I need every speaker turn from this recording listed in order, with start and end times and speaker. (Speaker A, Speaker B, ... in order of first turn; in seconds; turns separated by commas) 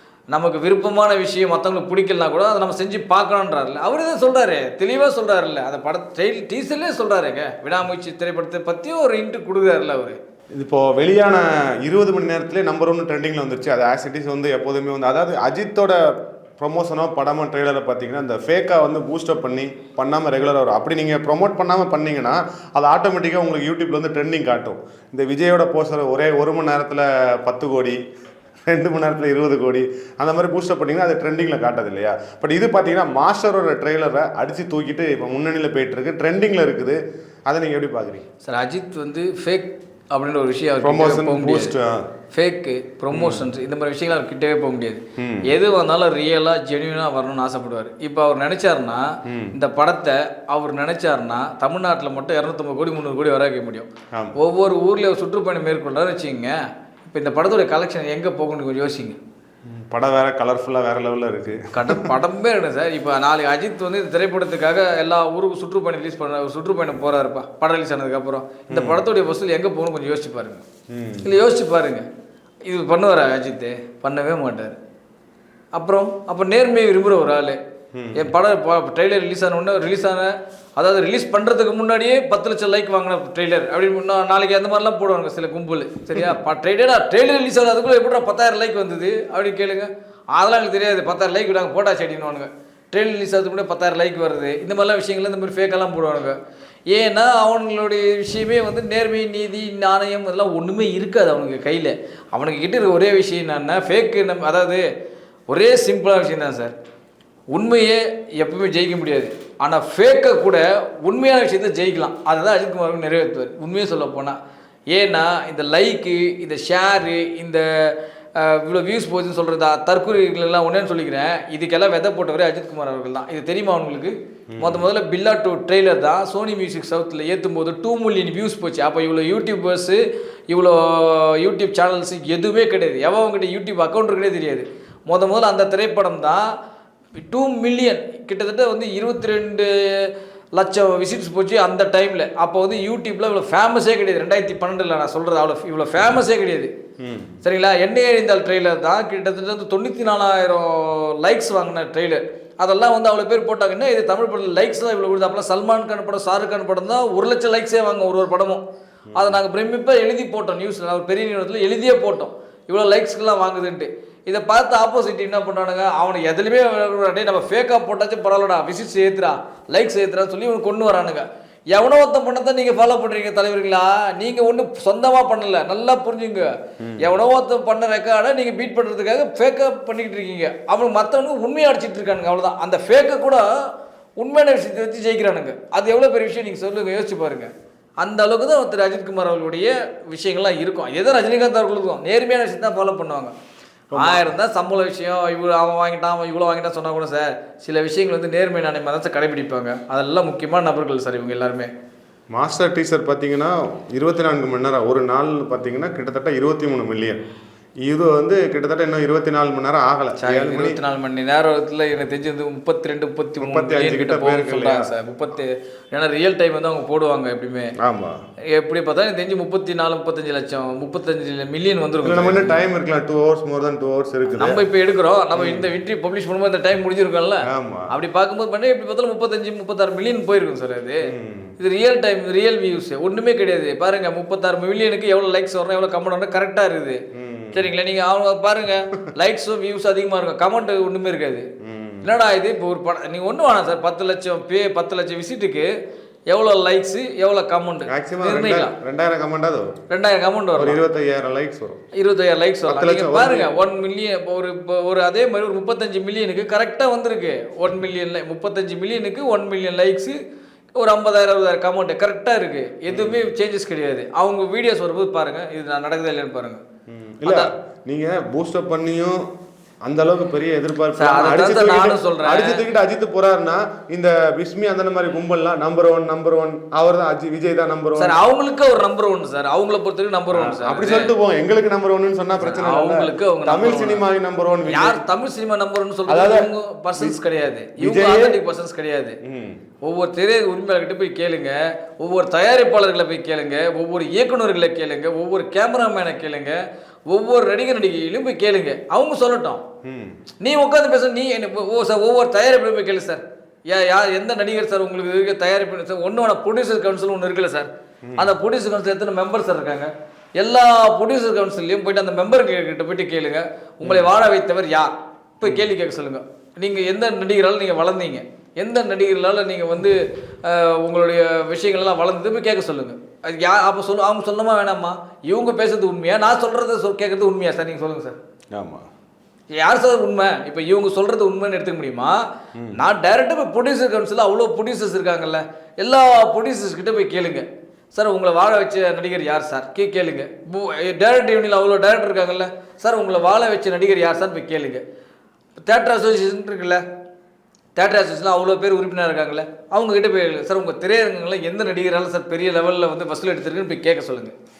Speaker A: 0.3-10.2, Speaker B: 10.6-16.1, Speaker B: 16.6-28.0, Speaker B: 28.7-38.2, Speaker A: 38.4-41.7, Speaker B: 40.8-42.1, Speaker A: 42.3-59.2, Speaker B: 43.1-43.5, Speaker B: 45.2-45.5, Speaker B: 49.3-49.5, Speaker B: 59.6-62.1, Speaker A: 61.7-70.6, Speaker B: 68.7-69.0, Speaker B: 70.9-71.3, Speaker A: 71.2-72.0, Speaker A: 72.7-74.8, Speaker A: 75.7-77.6, Speaker B: 77.9-78.3, Speaker A: 78.1-96.4, Speaker A: 96.9-104.8, Speaker A: 105.5-106.7, Speaker A: 107.5-114.4, Speaker A: 114.9-136.4, Speaker B: 124.5-124.8, Speaker A: 137.2-146.7, Speaker B: 147.0-147.3, Speaker A: 147.4-158.6, Speaker B: 159.1-159.4, Speaker A: 159.1-183.5, Speaker B: 176.8-177.1, Speaker A: 184.2-193.3, Speaker B: 193.9-194.3, Speaker A: 193.9-201.7, Speaker B: 202.3-207.2, Speaker B: 207.8-210.8, Speaker A: 210.2-217.7, Speaker B: 213.4-214.9, Speaker B: 217.8-218.2, Speaker A: 218.5-222.6, Speaker B: 222.0-224.6, Speaker A: 224.3-237.0, Speaker B: 225.3-225.7, Speaker B: 227.4-227.9, Speaker B: 231.0-231.5, Speaker B: 237.1-237.7, Speaker A: 237.5-241.5, Speaker B: 241.6-242.2, Speaker A: 242.0-245.7, Speaker A: 246.3-248.7, Speaker B: 247.9-249.8, Speaker A: 249.9-250.8, Speaker B: 250.6-251.8, Speaker A: 251.9-260.2, Speaker B: 252.7-253.5, Speaker A: 260.8-266.6, Speaker B: 262.9-263.2, Speaker B: 266.9-269.2, Speaker B: 269.8-278.2, Speaker A: 270.9-272.6, Speaker A: 278.0-281.1, Speaker B: 280.3-285.0, Speaker A: 282.4-284.0, Speaker A: 284.7-289.2, Speaker B: 286.1-287.2, Speaker B: 287.8-288.4, Speaker B: 289.2-289.6, Speaker A: 289.8-299.6, Speaker B: 299.8-300.2, Speaker A: 300.4-328.2, Speaker B: 308.1-308.3, Speaker B: 313.8-314.1, Speaker B: 315.4-315.7, Speaker B: 328.5-328.9, Speaker A: 329.6-332.2, Speaker A: 332.7-344.8, Speaker A: 345.6-346.8, Speaker A: 347.8-354.3